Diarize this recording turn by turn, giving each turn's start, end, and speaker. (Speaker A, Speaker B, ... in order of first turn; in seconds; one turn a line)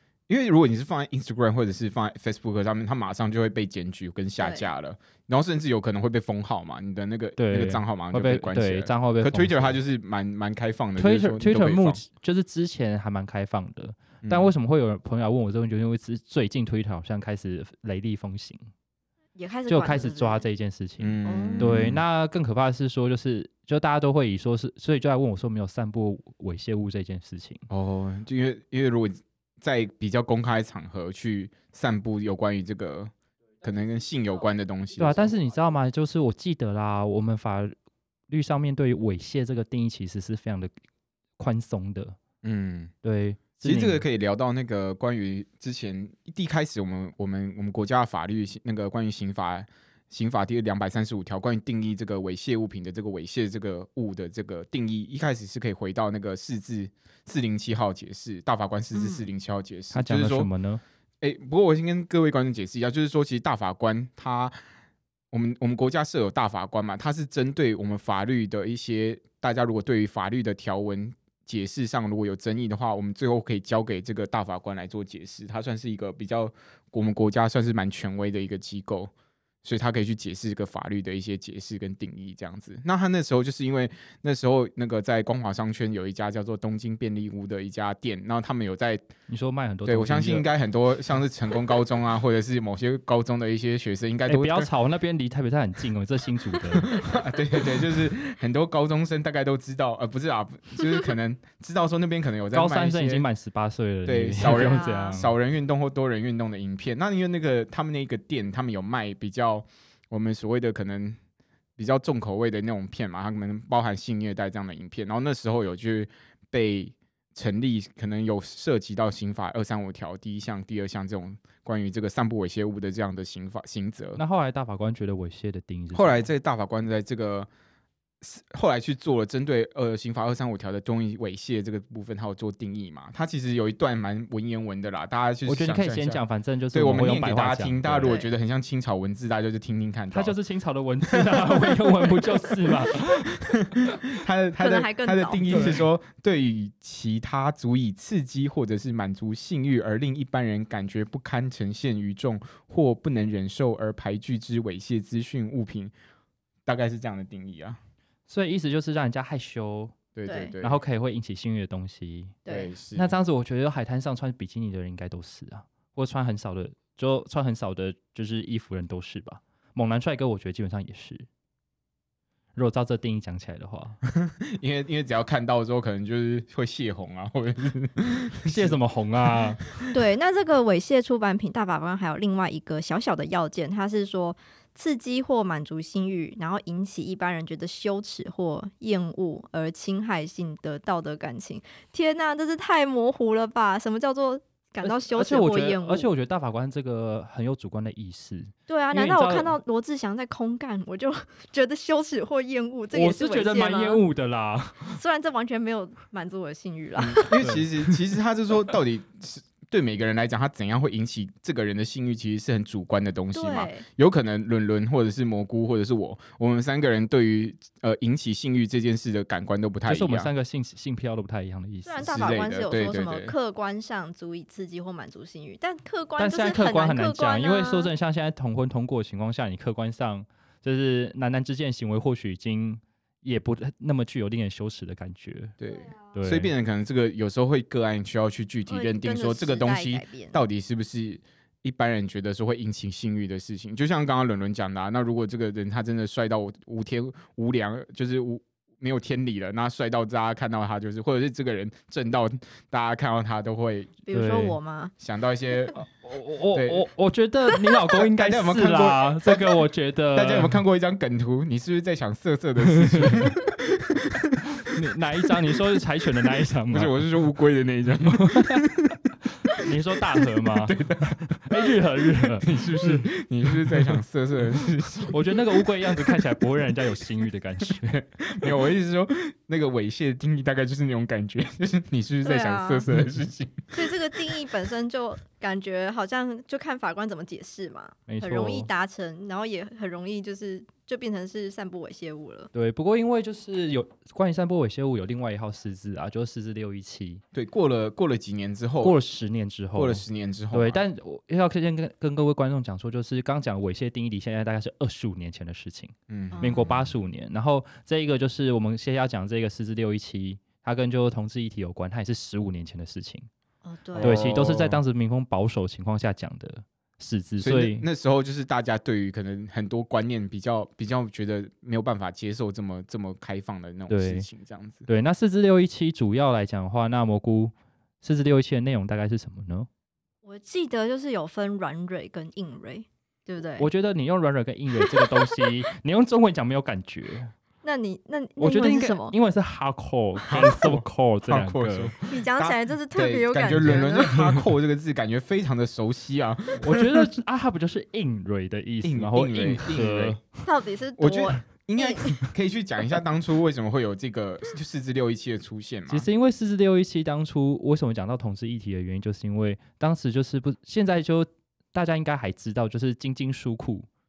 Speaker A: 0.3-12.0
Speaker B: 4.4-4.6
Speaker C: 7.4-9.8
Speaker C: 11.0-18.7
Speaker A: 14.2-14.5
Speaker B: 19.4-20.5
Speaker C: 19.7-27.6
Speaker A: 21.0-22.0
Speaker B: 21.2-21.8
Speaker A: 27.7-35.3
Speaker C: 35.0-37.8
Speaker C: 38.3-40.7
Speaker C: 41.4-42.2
Speaker A: 42.4-42.9
Speaker C: 43.0-44.0
Speaker A: 43.6-60.5
Speaker B: 58.9-59.2
Speaker C: 59.9-60.8
Speaker A: 61.2-64.5
Speaker A: 65.3-79.1
Speaker A: 79.6-89.1
Speaker C: 89.3-90.5
Speaker A: 89.8-94.7
Speaker C: 94.2-96.9
Speaker A: 96.9-103.2
Speaker C: 102.5-105.3
Speaker A: 104.1-111.2
Speaker B: 104.4-105.2
Speaker A: 111.8-124.2
Speaker C: 124.2-126.3
Speaker A: 125.9-127.5
Speaker A: 128.2-136.2
Speaker C: 135.5-138.1
Speaker A: 136.7-140.3
Speaker B: 138.0-138.3
Speaker C: 140.1-143.9
Speaker A: 141.2-142.8
Speaker A: 143.4-155.9
Speaker B: 144.6-145.4
Speaker C: 145.5-145.8
Speaker A: 156.7-157.8
Speaker C: 158.3-159.9
Speaker A: 160.1-160.8
Speaker B: 160.3-160.6
Speaker C: 160.6-162.4
Speaker B: 162.4-162.7
Speaker A: 162.5-163.1
Speaker C: 162.9-171.3
Speaker C: 172.6-174.0
Speaker A: 174.1-178.8
Speaker C: 178.4-179.6
Speaker B: 179.9-196.1
Speaker C: 194.8-199.6
Speaker B: 198.7-204.0
Speaker C: 202.9-205.0
Speaker B: 204.9-207.4
Speaker A: 207.0-220.3
Speaker C: 207.4-207.7
Speaker B: 213.3-213.8
Speaker C: 219.8-222.2
Speaker B: 221.8-227.9
Speaker A: 222.0-223.3
Speaker C: 226.2-235.6
Speaker A: 235.6-253.9
Speaker C: 236.1-236.5
Speaker B: 238.7-240.4
Speaker B: 254.1-254.9
Speaker C: 254.1-254.6
Speaker A: 255.0-255.8
Speaker C: 255.8-260.6
Speaker A: 256.5-256.9
Speaker A: 257.9-259.6
Speaker A: 260.1-264.3
Speaker C: 262.7-263.3
Speaker C: 264.6-267.1
Speaker A: 266.7-269.0
Speaker C: 268.1-268.6
Speaker C: 269.3-273.9
Speaker A: 270.4-271.6
Speaker A: 272.4-276.7
Speaker C: 275.1-278.5
Speaker A: 277.8-283.9
Speaker B: 282.2-282.9
Speaker B: 283.7-292.5
Speaker C: 288.1-288.7
Speaker C: 292.5-297.2
Speaker A: 297.3-299.0
Speaker C: 298.8-313.3
Speaker A: 299.8-300.8
Speaker A: 306.1-306.7
Speaker B: 306.3-306.8
Speaker B: 313.6-314.2
Speaker A: 313.9-314.8
Speaker C: 314.0-317.9
Speaker A: 317.4-324.9
Speaker C: 323.9-324.3
Speaker C: 324.9-329.7
Speaker B: 330.2-333.7
Speaker C: 333.6-337.3
Speaker B: 334.9-335.3
Speaker B: 337.6-339.1
Speaker C: 338.4-342.0
Speaker A: 340.3-347.1
Speaker B: 342.1-344.1
Speaker C: 343.6-344.4
Speaker C: 346.6-350.2
Speaker A: 348.8-350.2
Speaker B: 350.4-352.2
Speaker A: 351.0-356.1
Speaker C: 355.9-363.9